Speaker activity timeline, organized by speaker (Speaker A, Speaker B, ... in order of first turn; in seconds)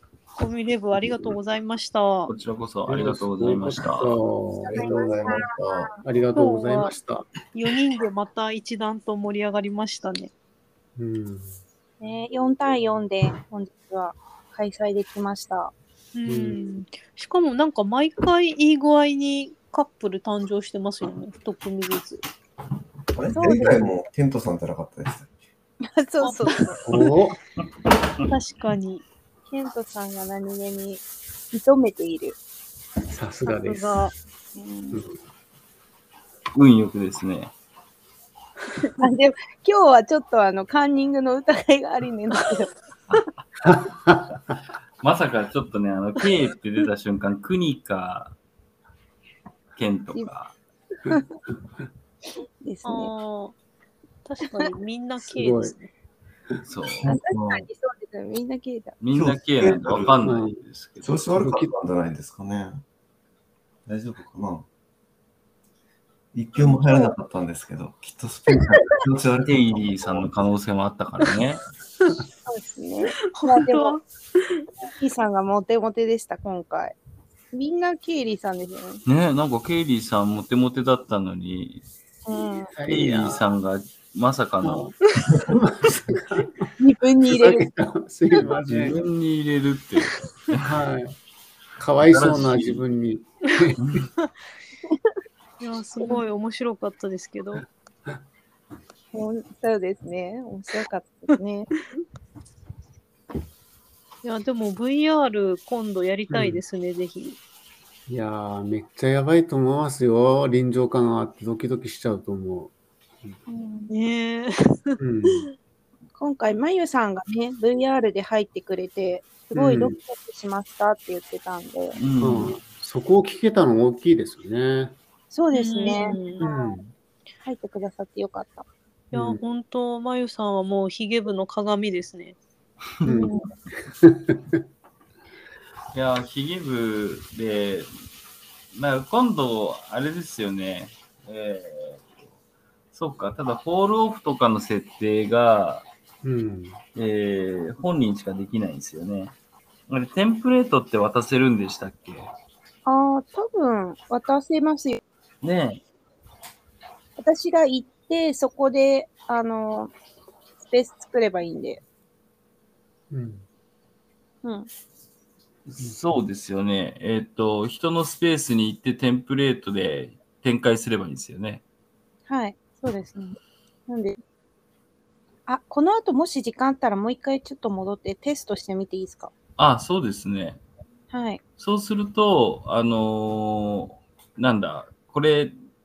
Speaker A: 0.3-2.3, 6.3-7.0, 7.5-10.3, 16.1-22.2, 26.2-27.1, 28.3-29.1, 33.5-34.1, 52.8-53.5, 54.2-55.9, 73.2-74.6, 95.6-97.6, 104.2-107.4, 113.9-115.0, 125.5-126.5, 129.1-132.4
Speaker B: 0.9-1.4, 2.9-5.2, 6.0-7.3, 11.0-11.6, 16.3-16.6, 26.9-27.4, 33.1-34.0, 34.9-35.1, 43.6-44.3, 55.2-55.8, 59.7-60.6, 61.4-61.7, 82.7-83.4, 84.6-84.9, 85.5-86.6, 87.3-89.0, 90.6-91.1, 91.8-93.8, 106.3-106.6, 108.1-113.4, 115.0-115.5, 119.5-120.0, 122.2-125.0, 126.4-126.9, 129.1-129.4, 133.0-133.3, 134.0-134.6, 146.2-146.8, 163.1-163.4
Speaker C: 2.3-4.2, 36.5-37.5, 45.0-48.3, 49.8-50.5, 56.6-57.2, 59.0-61.3, 69.4-71.6, 79.0-81.8, 82.9-84.9, 88.7-90.7, 92.1-92.8, 93.8-94.1, 121.9-122.5, 135.9-137.9, 138.7-142.0, 142.9-145.9, 146.9-149.3, 149.9-152.3, 155.4-155.8, 165.7-171.6, 179.6-180.6, 181.6-185.5
Speaker D: 4.6-5.9, 12.0-15.7, 23.3-23.9, 25.9-26.8, 29.5-32.4, 34.5-35.0, 38.9-42.7, 52.6-53.1, 57.1-59.0, 66.5-67.1, 72.5-74.0, 74.8-76.9, 77.5-79.0, 82.2-82.7, 86.8-87.7, 99.1-101.7, 113.5-113.9, 116.2-122.0, 125.3-126.7, 127.4-128.7, 133.1-133.5, 152.8-155.0, 157.2-159.9, 160.6-161.8, 172.3-173.3, 173.9-174.2, 175.5-179.3, 181.1-181.4
Speaker E: 4.8-6.0, 23.1-25.3, 57.0-57.7, 59.1-60.2, 61.0-62.8, 63.9-64.7, 66.3-70.2